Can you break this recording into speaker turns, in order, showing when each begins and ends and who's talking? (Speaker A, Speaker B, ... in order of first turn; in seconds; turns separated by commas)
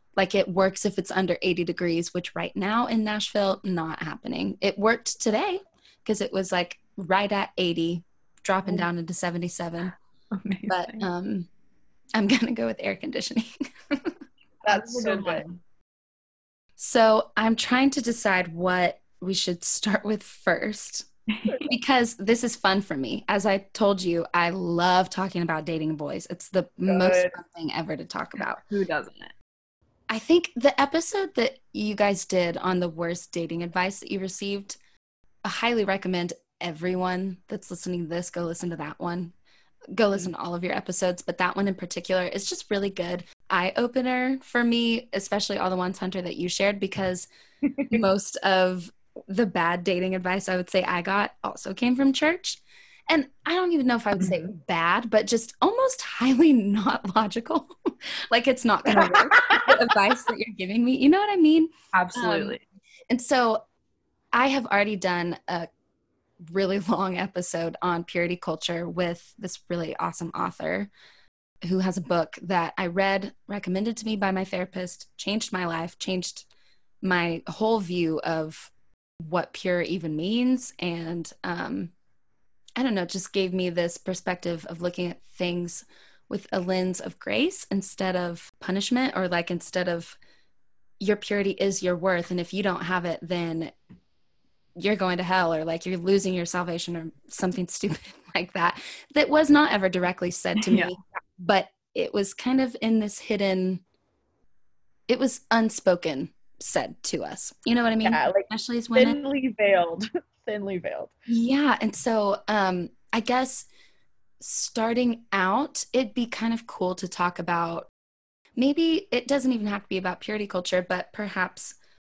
Speaker A: 0.1-9.9, Speaker B: 10.3-11.1, Speaker A: 10.7-11.5, Speaker A: 12.1-14.1, Speaker C: 14.7-15.4, Speaker B: 14.7-15.6, Speaker A: 16.8-21.1, Speaker B: 21.3-21.7, Speaker A: 21.7-28.6, Speaker C: 26.9-27.3, Speaker B: 28.5-29.3, Speaker A: 30.1-34.8, Speaker A: 35.4-39.3, Speaker A: 39.9-47.3, Speaker C: 47.7-48.0, Speaker A: 47.9-57.7, Speaker A: 58.3-62.6, Speaker C: 58.8-59.7, Speaker B: 62.0-62.6, Speaker A: 63.1-63.6, Speaker A: 64.3-65.7, Speaker A: 66.5-70.9, Speaker A: 71.6-76.5, Speaker A: 77.0-81.9, Speaker A: 82.8-90.2, Speaker A: 91.0-93.7, Speaker A: 94.8-103.8, Speaker B: 100.6-100.9, Speaker A: 105.1-109.2, Speaker C: 108.0-111.1, Speaker A: 111.3-113.7, Speaker A: 114.4-117.9, Speaker A: 118.5-121.8